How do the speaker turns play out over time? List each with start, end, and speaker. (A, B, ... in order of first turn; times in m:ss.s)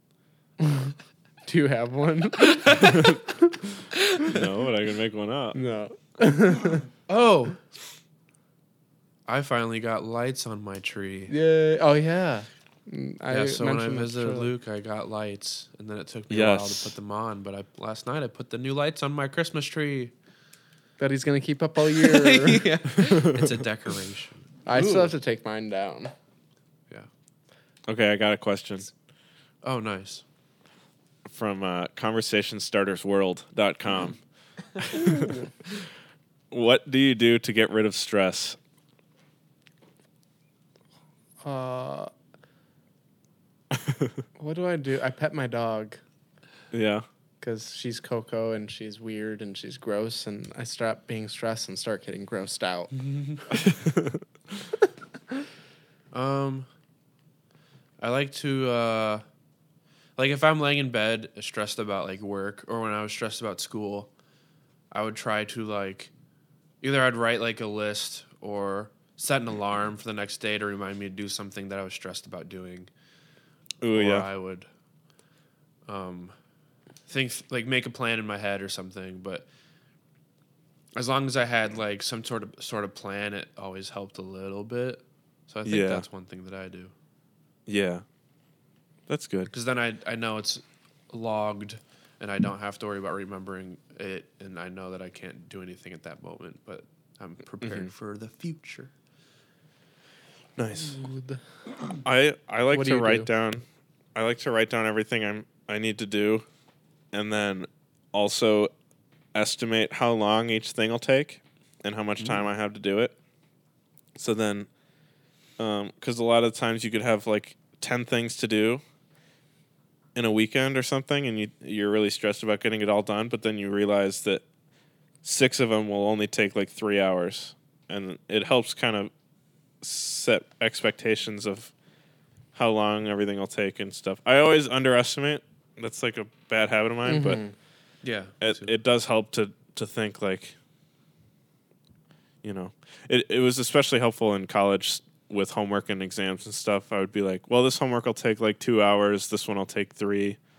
0:00.6-0:01.0 A
0:01.5-0:03.6 A
0:02.5-0:02.9 B
0:04.3-0:05.6 C
0:05.6-0:06.9 A
0:07.1-0:07.6 B
0:09.3-0:11.3 B
0:11.3-0:14.5 A
0:13.3-0:20.1 B
0:16.3-0:16.9 C
0:21.0-0:22.8 A
0:21.9-0:25.1 B
0:23.1-0:23.6 C
0:24.7-0:26.1 A
0:27.9-0:28.9 C
0:29.6-0:30.2 B
0:31.2-0:34.2 C
0:34.8-0:35.3 C
0:34.9-0:35.5 A
0:36.5-0:38.6 C
0:41.4-0:42.1 A
0:43.7-0:44.2 C
0:44.4-0:46.0 A
0:46.7-0:47.0 C
0:47.4-0:53.0 A
0:52.9-0:53.4 B
0:53.6-0:54.2 C
0:56.1-0:56.7 B
0:58.0-0:59.2 B
1:00.2-1:04.1 B
1:04.9-1:06.1 B
1:06.8-1:12.9 B
1:13.8-1:14.3 C
1:13.9-1:14.7 B
1:15.9-1:16.4 B
1:17.1-1:19.5 B
1:21.0-1:26.9 B
1:25.6-1:26.1 C
1:27.7-1:28.0 C
1:29.1-1:29.5 C
1:29.5-1:38.9 B
1:37.6-1:37.9 C
1:40.6-1:41.0 C
1:40.8-1:41.4 A
1:42.0-1:46.5 C
1:42.7-1:43.3 A
1:47.1-1:48.7 C
1:49.4-1:53.2 C
1:52.2-1:52.4 B
1:54.2-1:54.7 C
1:55.6-1:58.8 C
2:00.2-2:04.4 C
2:05.2-2:09.1 C
2:09.8-2:11.7 C
2:12.5-2:17.4 C
2:17.0-2:17.5 A
2:18.0-2:18.7 B
2:18.4-2:20.6 C
2:22.4-2:30.4 C